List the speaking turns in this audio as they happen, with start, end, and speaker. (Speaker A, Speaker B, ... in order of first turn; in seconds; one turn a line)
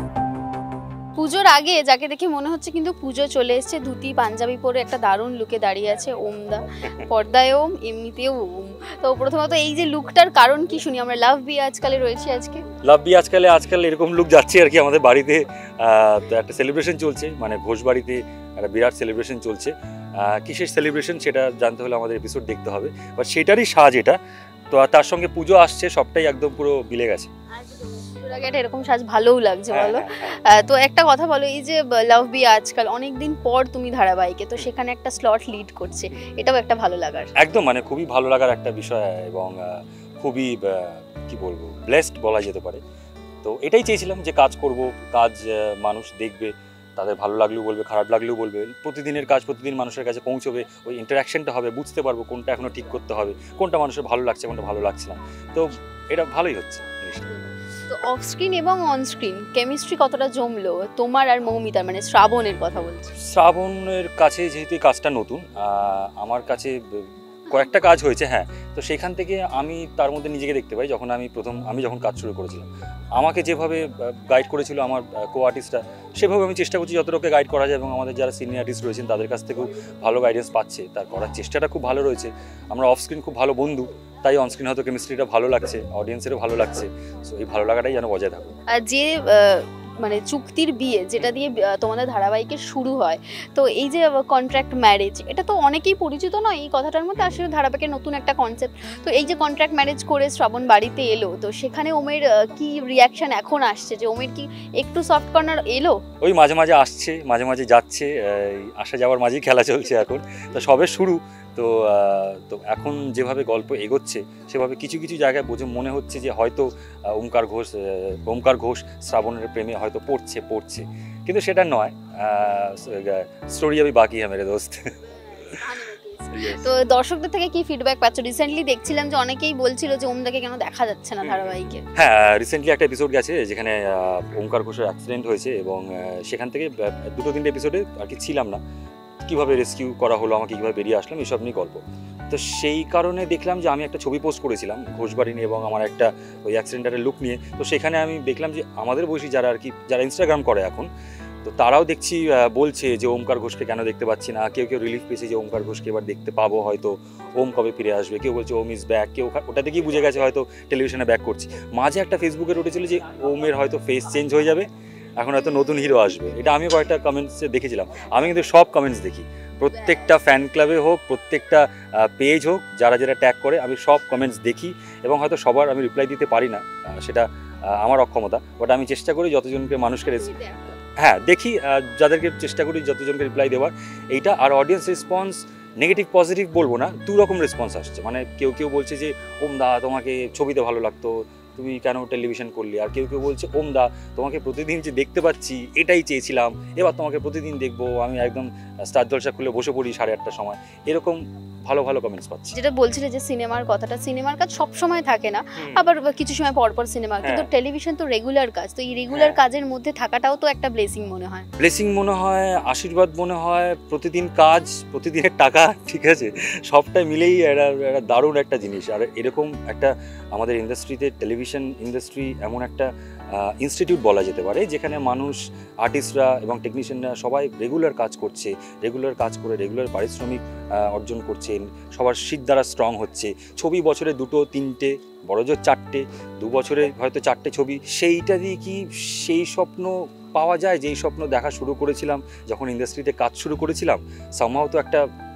Speaker A: 1.2-12.6
Speaker B: 12.8-24.2
Speaker B: 24.7-27.3
Speaker A: 27.6-37.3
Speaker B: 29.7-30.4
Speaker B: 37.4-42.8
Speaker B: 43.4-57.3
Speaker A: 57.9-63.1
Speaker B: 63.2-88.5
Speaker A: 88.7-106.0
Speaker B: 106.2-124.9
Speaker A: 125.1-131.8
Speaker B: 126.3-126.7
Speaker B: 131.2-138.6
Speaker B: 139.3-141.8
Speaker B: 142.3-150.9
Speaker B: 151.4-164.7
Speaker B: 165.2-180.3
Speaker A: 180.1-180.6
Speaker B: 181.0-202.6
Speaker A: 202.5-211.5
Speaker B: 205.6-205.8
Speaker B: 207.2-207.5
Speaker B: 209.1-209.4
Speaker B: 211.6-245.0